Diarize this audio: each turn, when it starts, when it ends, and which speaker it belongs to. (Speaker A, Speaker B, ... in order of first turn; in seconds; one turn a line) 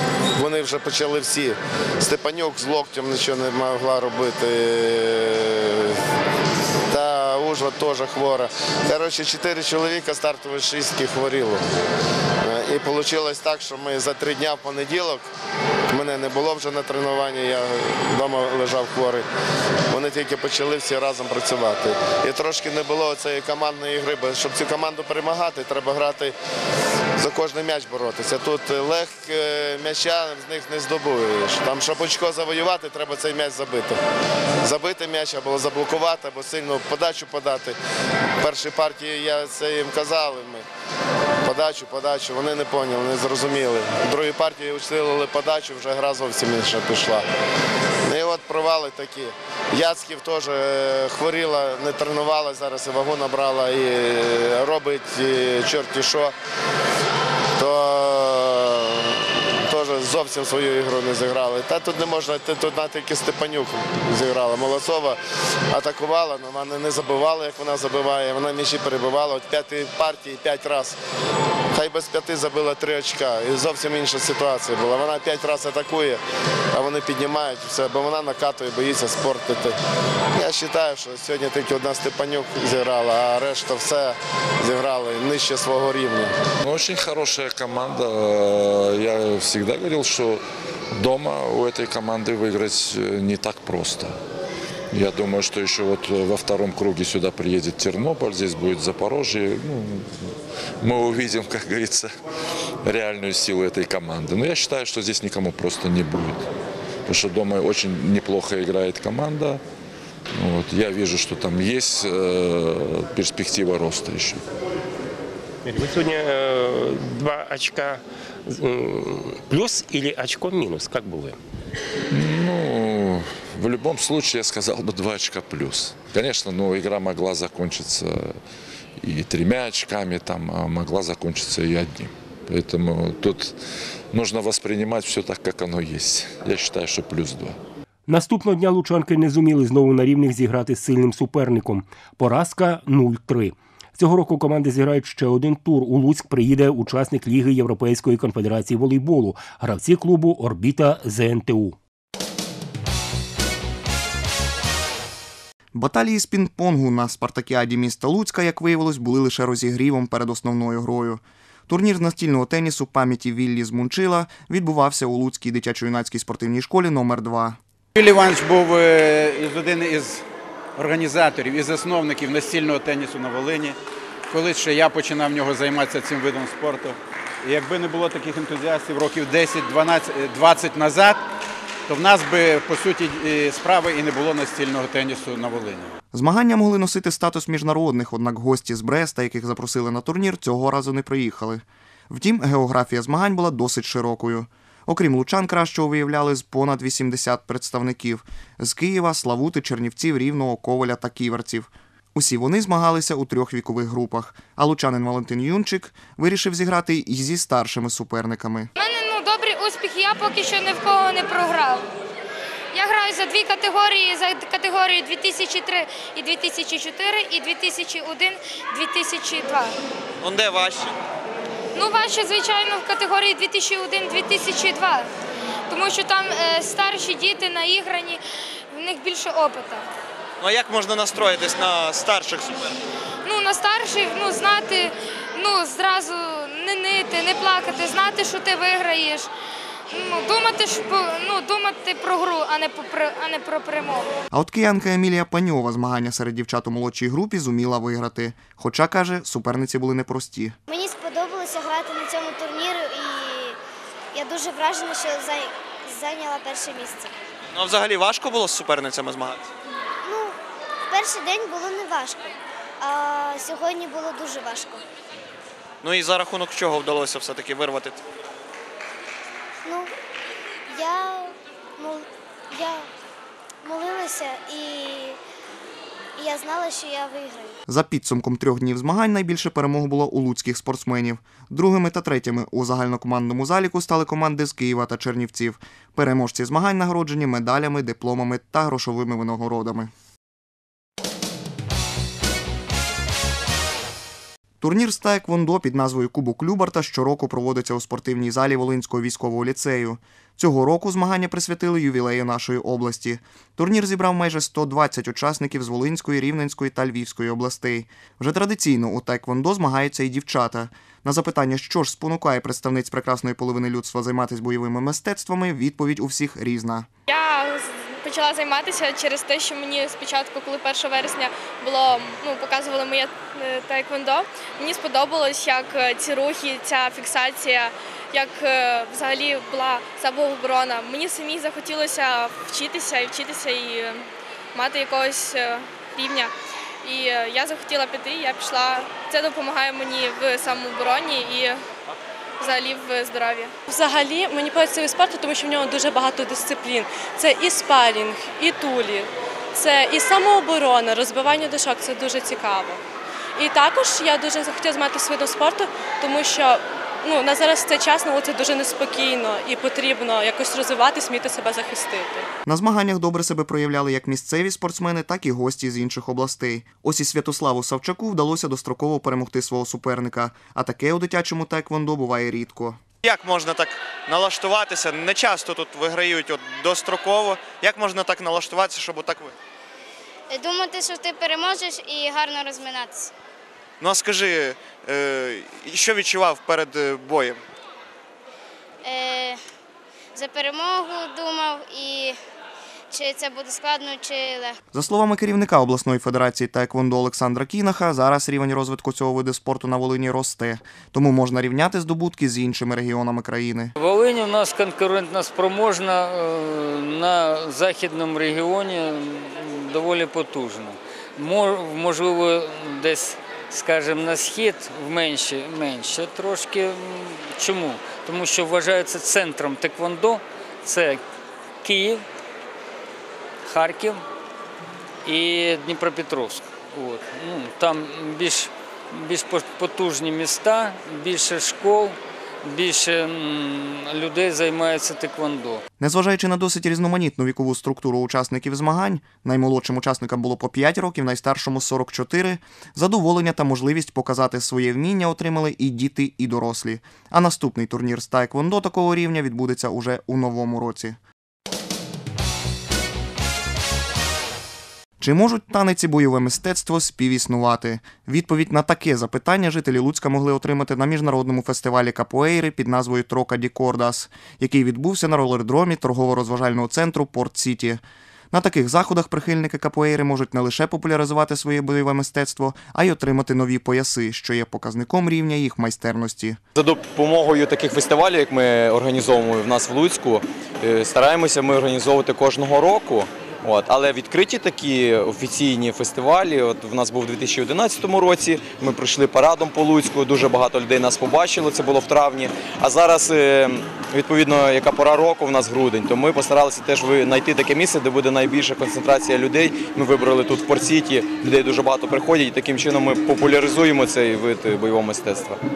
Speaker A: 0.4-6.0
Speaker A: 6.9-11.6
Speaker A: 12.4-15.2
Speaker A: 15.9-19.2
Speaker A: 19.9-26.4
Speaker A: 27.2-34.0
Speaker A: 34.6-37.8
Speaker A: 38.4-40.7
Speaker A: 41.4-47.2
Speaker A: 48.1-56.3
Speaker A: 57.6-65.2
Speaker A: 65.7-71.0
Speaker A: 71.7-76.2
Speaker A: 76.7-79.8
Speaker A: 80.3-86.3
Speaker B: 86.6-90.4
Speaker B: 90.9-94.2
Speaker B: 94.9-102.1
Speaker B: 102.8-106.5
Speaker B: 107.1-109.6
Speaker B: 110.3-114.4
Speaker C: 115.7-121.4
Speaker B: 122.1-128.4
Speaker B: 129.0-133.6
Speaker B: 134.1-137.6
Speaker C: 138.1-151.8
Speaker D: 155.7-167.6
Speaker E: 167.9-170.2
Speaker E: 170.8-173.8
Speaker E: 174.3-181.2
Speaker E: 181.9-185.9
Speaker D: 186.1-208.7
Speaker F: 208.8-211.8
Speaker F: 212.7-219.8
Speaker G: 220.2-220.9
Speaker F: 221.8-225.1
Speaker F: 225.7-228.2
Speaker F: 228.7-229.9
Speaker G: 230.4-232.7
Speaker F: 233.2-239.3
Speaker F: 239.9-244.1
Speaker D: 244.3-250.6
Speaker H: 250.7-253.6
Speaker H: 254.1-257.1
Speaker G: 257.5-259.5
Speaker H: 260.0-260.4
Speaker H: 260.9-264.8
Speaker G: 265.8-268.0
Speaker H: 269.6-269.9
Speaker H: 270.7-272.9
Speaker H: 273.6-275.2
Speaker H: 276.2-277.5
Speaker D: 277.7-289.9
Speaker D: 294.6-316.9
Speaker I: 317.1-336.3
Speaker I: 336.8-341.6
Speaker I: 342.4-343.5
Speaker J: 343.6-352.8
Speaker J: 353.4-362.3
Speaker D: 362.5-372.8
Speaker G: 373.0-379.3
Speaker H: 380.3-383.1
Speaker G: 383.8-387.4
Speaker H: 388.9-389.4
Speaker H: 390.2-392.1
Speaker H: 392.9-394.6
Speaker D: 394.7-403.7
Speaker K: 403.8-421.0
Speaker K: 421.6-422.1
Speaker K: 423.4-424.0
Speaker K: 425.0-435.6
Speaker D: 435.8-451.0
Speaker D: 455.0-476.4
Speaker L: 476.6-505.4